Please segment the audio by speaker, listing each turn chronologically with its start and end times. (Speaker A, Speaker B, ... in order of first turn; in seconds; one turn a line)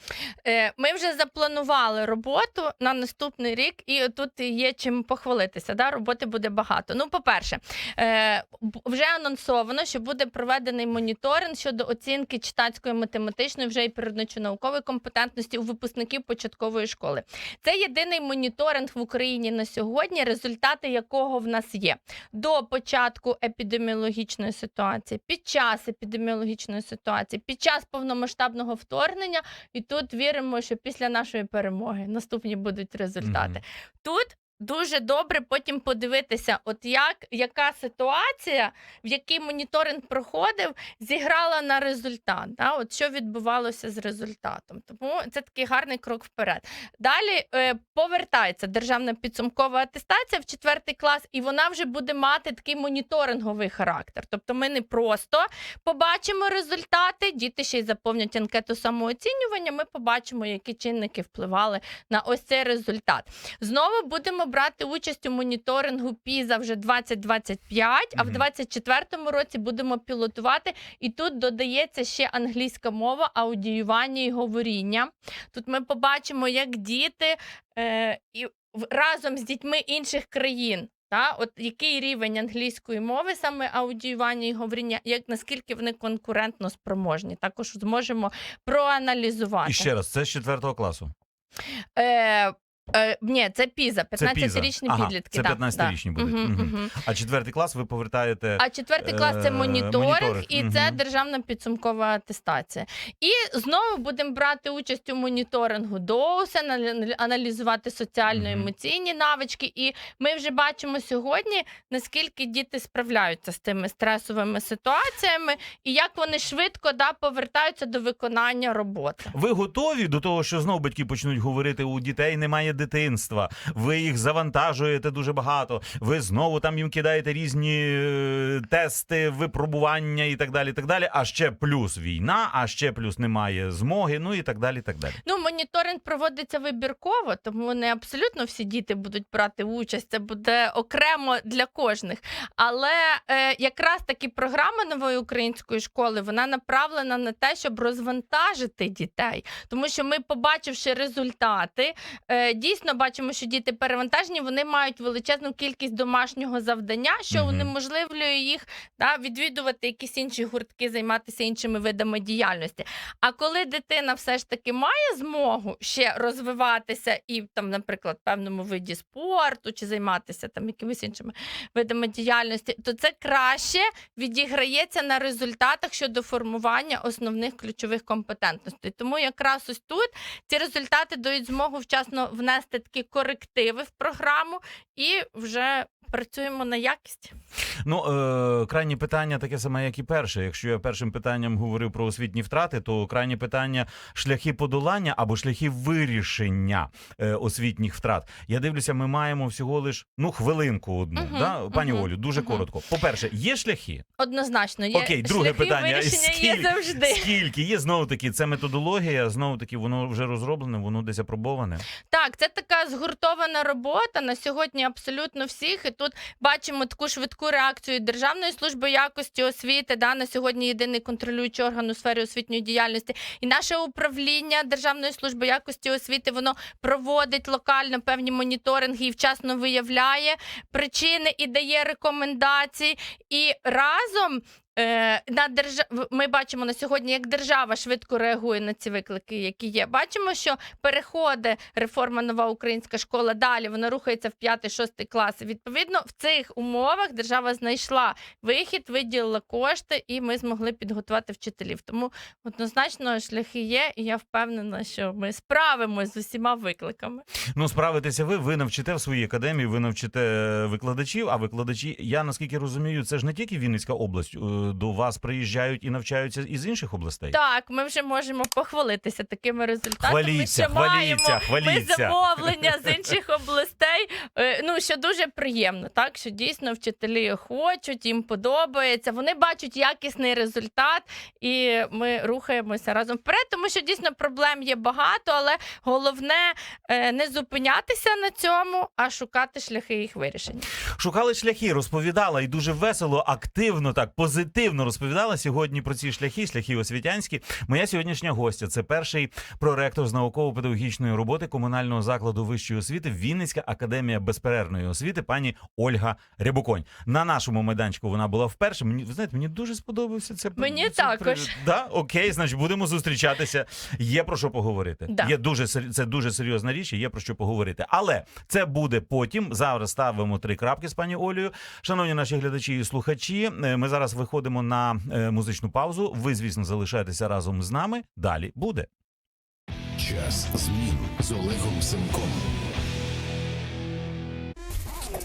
Speaker A: 0.5-89.9
Speaker B: 33.2-33.6
Speaker B: 68.2-68.4
Speaker B: 89.6-91.1
Speaker A: 92.0-96.9
Speaker B: 94.2-101.0
Speaker A: 98.6-119.3
Speaker B: 108.3-108.7
Speaker B: 119.3-135.2
Speaker A: 135.2-187.3
Speaker B: 157.3-157.7
Speaker B: 187.8-204.0
Speaker A: 201.2-202.6
Speaker A: 204.2-207.4
Speaker B: 204.9-211.8
Speaker A: 212.1-257.2
Speaker B: 257.6-267.4
Speaker A: 267.3-290.7
Speaker B: 270.0-273.0
Speaker B: 291.0-328.9
Speaker A: 310.6-311.6
Speaker C: 330.0-332.5